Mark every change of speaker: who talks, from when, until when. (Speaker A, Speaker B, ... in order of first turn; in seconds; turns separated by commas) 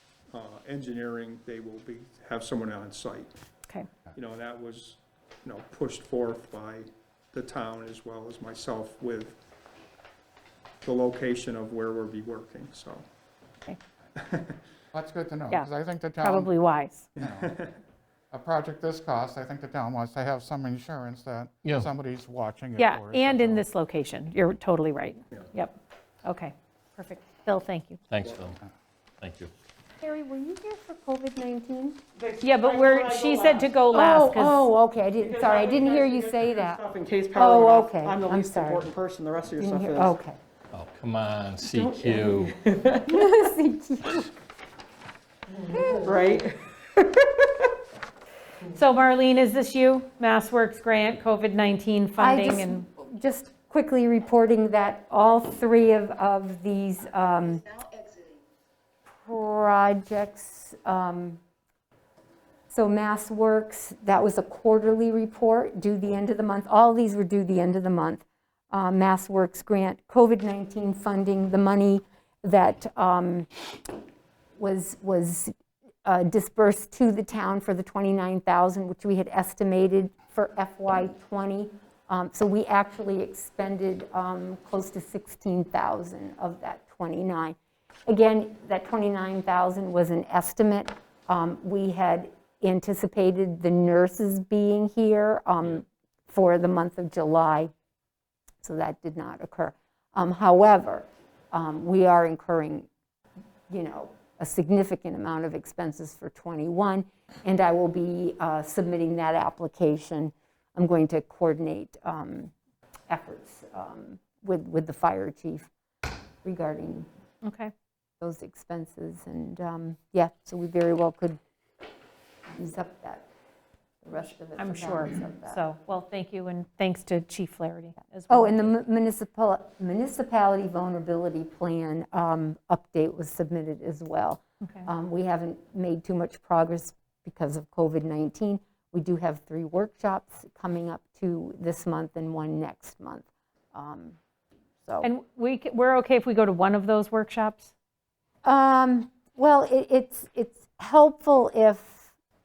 Speaker A: 0.3-3.3, Speaker A: 4.1-9.4, Speaker A: 10.8-13.1, Speaker A: 14.2-14.6, Speaker B: 14.9-16.5, Speaker C: 15.5-17.1, Speaker B: 17.2-17.5, Speaker A: 17.2-17.8, Speaker B: 18.3-23.6, Speaker C: 22.8-28.0, Speaker D: 28.1-28.6, Speaker D: 29.2-29.5, Speaker E: 30.0-32.0, Speaker F: 32.2-34.0, Speaker C: 32.4-34.5, Speaker E: 33.9-36.8, Speaker F: 35.2-40.2, Speaker E: 37.3-38.9, Speaker E: 39.6-40.4, Speaker D: 40.7-42.6, Speaker E: 41.8-42.3, Speaker F: 42.6-43.1, Speaker E: 43.0-44.3, Speaker F: 45.7-46.5, Speaker E: 45.7-46.2, Speaker C: 48.7-52.8, Speaker E: 52.2-57.7, Speaker E: 59.2-61.4, Speaker E: 62.7-73.5, Speaker E: 74.6-75.5, Speaker E: 76.0-87.6, Speaker E: 88.1-97.7, Speaker E: 98.6-102.9, Speaker E: 103.7-112.5, Speaker E: 113.1-115.7, Speaker E: 116.4-117.1, Speaker C: 117.4-117.7, Speaker E: 118.2-121.4, Speaker E: 122.5-123.3, Speaker E: 124.0-125.6, Speaker C: 124.6-128.6, Speaker E: 128.3-144.2, Speaker C: 145.0-147.7, Speaker E: 148.4-152.1